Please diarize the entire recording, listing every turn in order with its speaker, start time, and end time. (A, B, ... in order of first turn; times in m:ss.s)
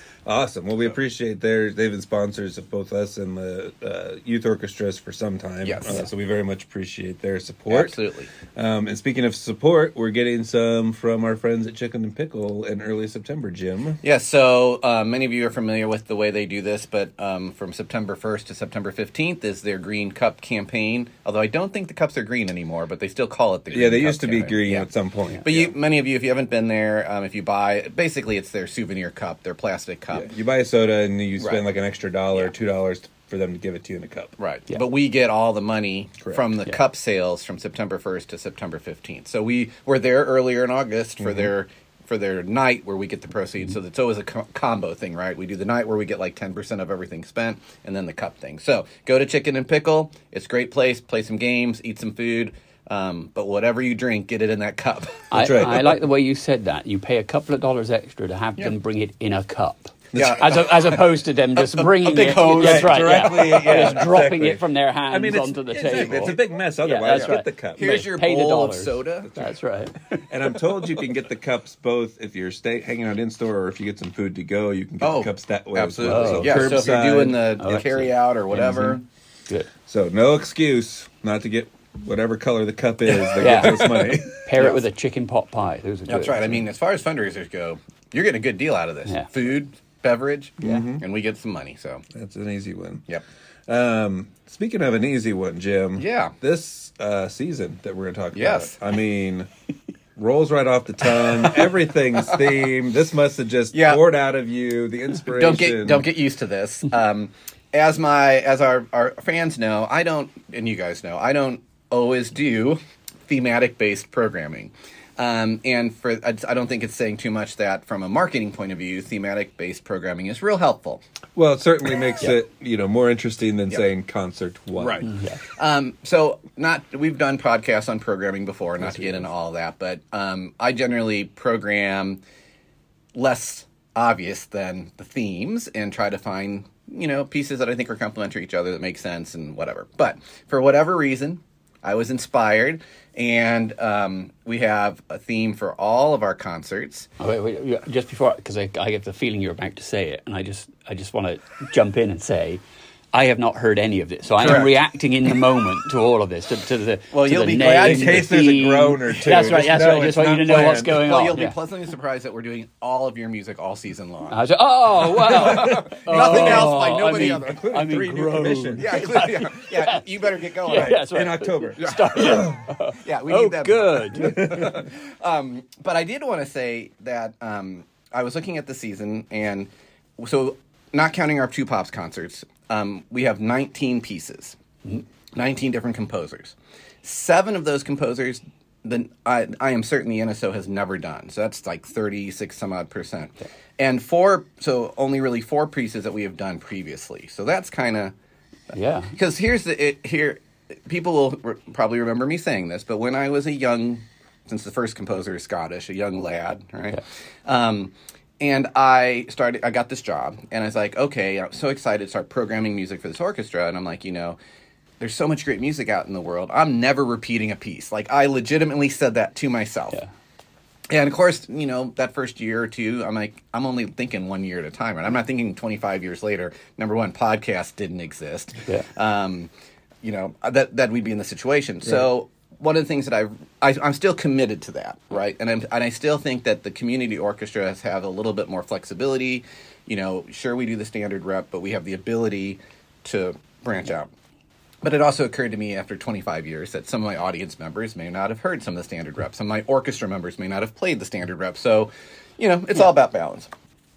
0:00.2-0:14.0 A
0:05.6-0:06.0 B
0:07.7-0:08.3 B
0:14.0-0:24.9 B
0:23.7-0:25.7 A
0:25.4-0:30.3 B
0:30.1-0:34.3 A
0:34.4-0:55.3 B
0:41.2-0:41.5 A
0:55.3-1:10.8 C
0:55.3-0:56.0 A
1:00.2-1:01.0 B
1:01.6-1:04.1 B
1:02.6-1:07.9 A
1:05.7-1:06.4 B
1:07.1-1:09.4 B
1:10.3-1:17.4 A
1:15.0-1:19.0 B
1:16.0-1:17.0 C
1:17.6-1:19.7 C
1:19.9-1:24.4 A
1:23.1-1:24.8 B
1:23.4-1:26.6 C
1:26.1-1:32.0 B
1:30.6-1:31.0 A
1:32.1-1:33.1 A
1:33.7-1:39.5 A
1:36.0-1:36.3 B
1:38.3-1:38.8 B
1:40.2-1:46.1 A
1:43.7-1:44.0 B
1:45.3-2:01.0 B
2:01.3-2:05.0 A
2:04.8-2:12.2 B
2:05.0-2:05.4 C
2:13.1-2:27.1 B
2:27.2-2:32.6 C
2:33.1-2:41.5 C
2:34.4-2:34.7 B
2:37.1-2:38.4 B
2:37.8-2:41.1 A
2:40.4-2:44.4 B
2:44.3-2:54.8 C
2:45.2-2:47.6 B
2:45.3-2:49.0 A
2:48.8-2:51.0 B
2:50.7-2:52.6 A
2:51.8-3:04.6 B
2:54.1-2:54.8 A
3:05.3-3:18.1 B
3:18.7-3:19.1 C
3:19.1-3:34.4 B
3:35.0-3:40.0 B
3:40.9-3:49.5 B
3:50.0-4:04.1 B
4:04.8-4:13.5 B